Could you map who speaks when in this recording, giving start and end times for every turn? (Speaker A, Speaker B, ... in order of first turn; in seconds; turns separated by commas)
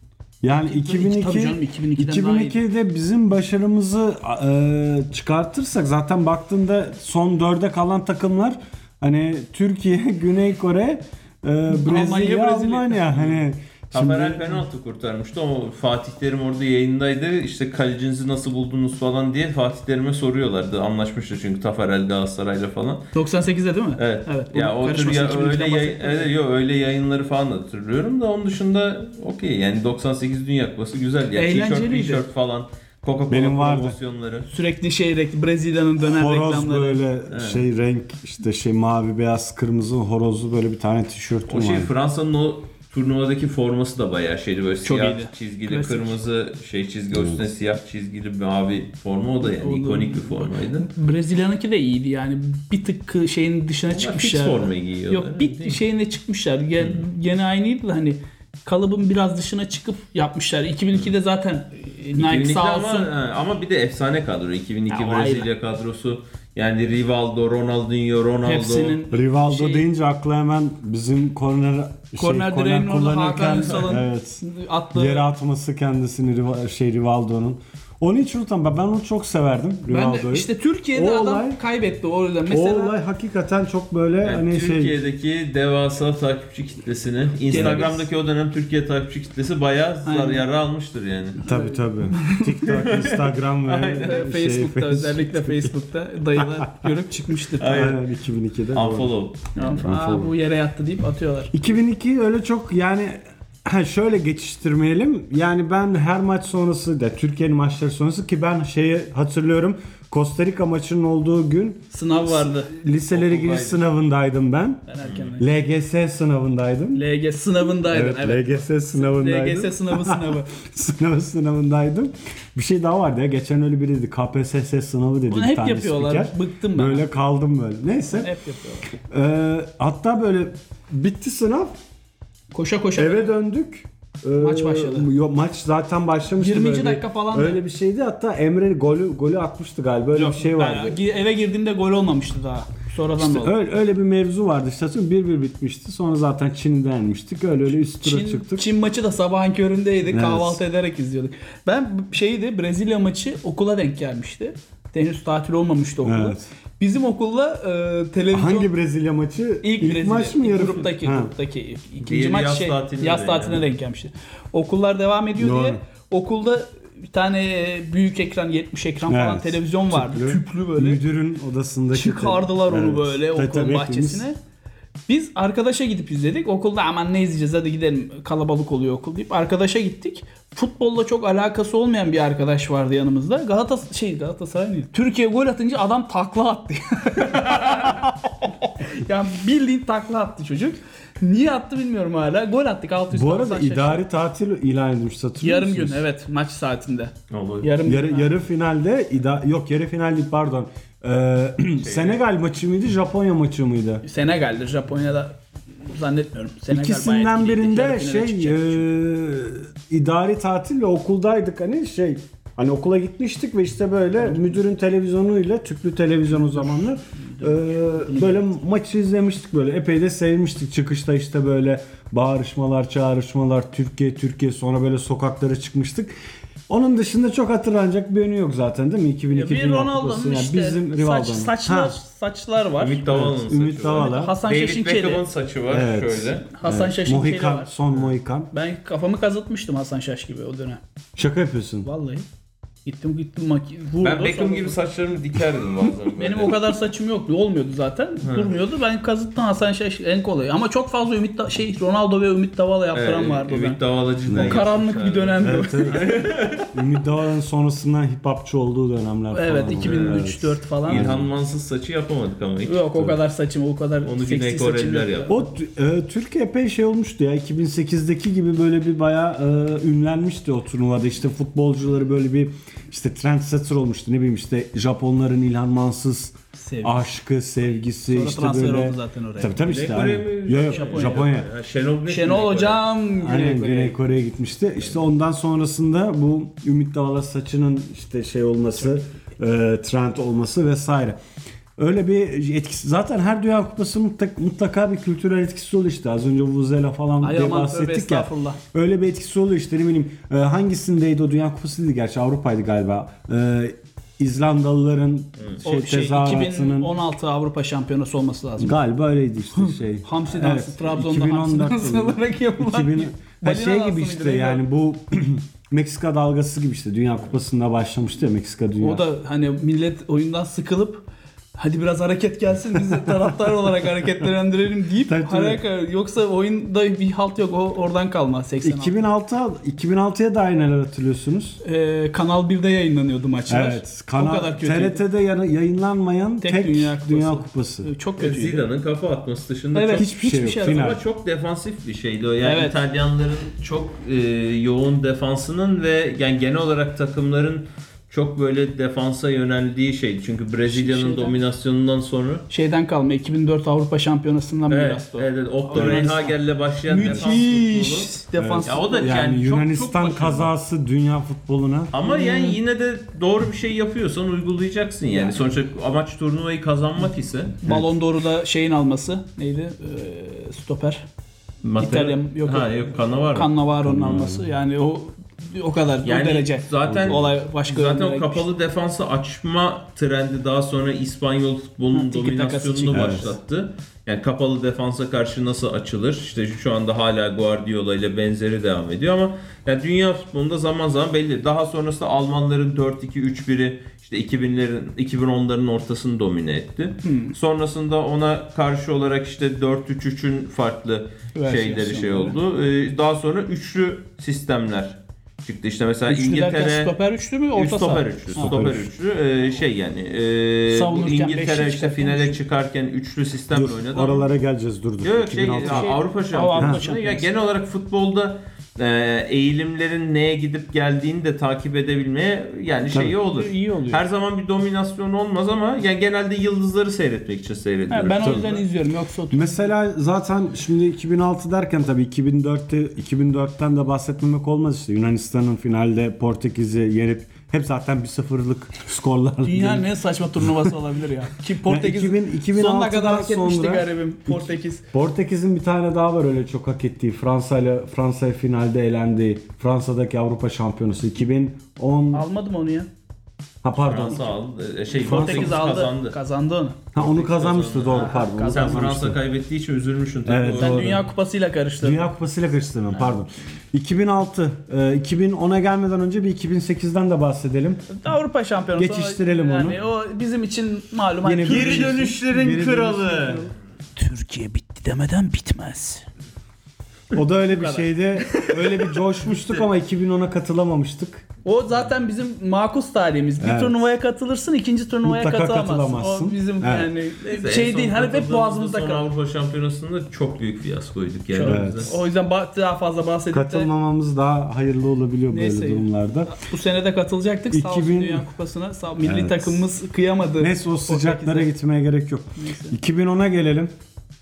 Speaker A: 0.4-14.6, Speaker B: 0.6-2.6, Speaker B: 11.7-13.1, Speaker C: 13.1-13.4, Speaker C: 13.9-23.1, Speaker B: 23.1-26.3, Speaker C: 24.0-34.5, Speaker B: 31.3-32.2, Speaker A: 33.3-34.0, Speaker B: 34.5-37.0, Speaker A: 36.0-41.9, Speaker C: 37.3-37.6, Speaker C: 41.5-50.9, Speaker B: 44.8-46.1, Speaker B: 49.4-63.1, Speaker C: 53.9-55.8, Speaker C: 62.2-69.0, Speaker B: 64.9-65.5, Speaker B: 68.4-69.8, Speaker A: 69.1-74.4, Speaker B: 72.2-75.3, Speaker A: 74.9-81.6, Speaker B: 79.9-82.9, Speaker A: 82.5-84.9, Speaker C: 84.2-91.4, Speaker A: 87.5-88.1, Speaker B: 87.5-87.9, Speaker B: 90.0-90.4, Speaker B: 91.4-92.5, Speaker A: 91.4-95.7, Speaker C: 92.7-94.2, Speaker B: 93.9-97.9, Speaker A: 96.3-96.9, Speaker C: 97.6-98.0, Speaker A: 97.7-99.1, Speaker C: 98.7-99.8, Speaker B: 99.5-101.5, Speaker A: 99.8-100.3, Speaker A: 101.5-114.8, Speaker B: 111.9-112.7, Speaker C: 113.1-113.8, Speaker B: 114.9-115.4, Speaker C: 115.0-115.3, Speaker A: 115.4-117.0, Speaker B: 116.9-120.5, Speaker A: 117.9-128.3, Speaker B: 125.3-127.1, Speaker B: 128.1-128.9, Speaker A: 129.1-131.8, Speaker B: 132.5-133.3, Speaker A: 132.9-141.0, Speaker B: 134.4-135.1, Speaker B: 136.4-137.6, Speaker B: 140.1-143.5, Speaker A: 143.2-148.7, Speaker B: 148.0-158.7, Speaker A: 150.1-150.6, Speaker A: 156.0-156.5, Speaker A: 158.3-161.3, Speaker B: 159.6-171.0, Speaker C: 162.0-163.7, Speaker A: 165.4-165.8, Speaker A: 169.1-174.2, Speaker B: 171.9-174.3, Speaker B: 175.1-194.0, Speaker A: 193.1-196.0, Speaker B: 195.4-198.3, Speaker C: 197.3-197.7, Speaker A: 197.8-204.0, Speaker C: 201.8-202.2, Speaker B: 204.0-208.9, Speaker A: 206.7-226.1, Speaker B: 216.4-218.5, Speaker A: 226.7-231.9, Speaker B: 229.3-233.0, Speaker C: 232.8-236.4, Speaker A: 233.1-234.4, Speaker B: 233.9-235.2, Speaker A: 235.7-238.5, Speaker B: 236.5-237.8, Speaker B: 238.5-240.8, Speaker A: 241.2-241.9, Speaker B: 241.8-242.2, Speaker B: 242.8-244.8, Speaker C: 244.0-246.7, Speaker B: 246.1-253.8, Speaker C: 248.2-248.5, Speaker C: 252.9-256.7, Speaker A: 254.3-254.6, Speaker B: 254.3-256.2, Speaker A: 255.4-261.3, Speaker B: 259.3-261.2, Speaker C: 259.8-260.3, Speaker C: 260.9-263.1, Speaker B: 262.6-265.4, Speaker C: 264.0-265.3, Speaker A: 265.3-281.5, Speaker B: 276.6-277.1, Speaker B: 278.1-279.6, Speaker C: 279.6-282.8, Speaker B: 280.7-281.3, Speaker B: 282.1-284.0, Speaker A: 283.2-291.2, Speaker A: 291.8-306.9, Speaker B: 297.2-298.6, Speaker B: 305.6-308.8, Speaker A: 308.6-319.0, Speaker B: 309.7-314.6, Speaker B: 318.8-321.0, Speaker B: 321.6-329.0, Speaker A: 322.9-323.4, Speaker A: 325.1-325.6, Speaker A: 328.6-331.6, Speaker B: 331.6-335.0, Speaker A: 333.5-337.9, Speaker B: 336.4-338.6, Speaker C: 338.2-352.5, Speaker B: 339.7-340.9, Speaker A: 339.9-341.0, Speaker B: 342.4-342.8, Speaker B: 350.7-351.4, Speaker B: 352.5-359.2, Speaker C: 354.7-360.5, Speaker A: 355.7-356.1, Speaker A: 358.4-361.9, Speaker C: 361.9-367.6, Speaker B: 362.0-362.6, Speaker B: 365.1-365.4, Speaker B: 367.6-371.1, Speaker C: 371.6-373.5, Speaker B: 371.8-372.8, Speaker B: 373.3-378.5, Speaker A: 373.8-374.5, Speaker C: 376.0-406.9, Speaker A: 376.9-377.2, Speaker B: 381.9-383.4, Speaker A: 382.9-383.3, Speaker B: 397.0-397.4, Speaker B: 401.3-402.4, Speaker B: 406.1-408.6, Speaker C: 407.5-414.3, Speaker A: 408.3-408.9, Speaker B: 410.7-412.4, Speaker A: 413.5-415.9, Speaker C: 415.0-428.6, Speaker B: 415.5-417.3, Speaker A: 416.6-416.8, Speaker B: 423.3-424.0, Speaker B: 427.9-429.7, Speaker A: 428.2-428.5, Speaker A: 429.3-439.9, Speaker B: 439.4-444.8, Speaker A: 440.4-440.7, Speaker A: 441.6-452.2, Speaker B: 452.1-452.9, Speaker A: 453.6-454.2, Speaker C: 453.8-456.1, Speaker B: 454.9-456.8, Speaker A: 455.0-455.6, Speaker A: 456.9-459.2, Speaker C: 456.9-461.0, Speaker B: 457.9-458.9, Speaker A: 460.2-461.0, Speaker B: 460.4-462.1, Speaker A: 461.8-467.9, Speaker C: 462.9-463.2, Speaker B: 467.9-472.1, Speaker A: 468.8-469.8, Speaker A: 471.2-473.5, Speaker C: 471.4-473.5, Speaker B: 474.0-476.1, Speaker A: 477.1-481.2, Speaker B: 477.5-479.0, Speaker B: 481.4-489.0, Speaker A: 483.4-483.8, Speaker A: 485.0-486.9, Speaker C: 487.2-491.9, Speaker B: 491.3-493.7, Speaker A: 491.4-491.9, Speaker A: 493.3-496.3, Speaker B: 495.3-501.5, Speaker A: 497.5-498.2, Speaker A: 499.0-499.7, Speaker A: 500.4-503.7, Speaker B: 502.4-502.8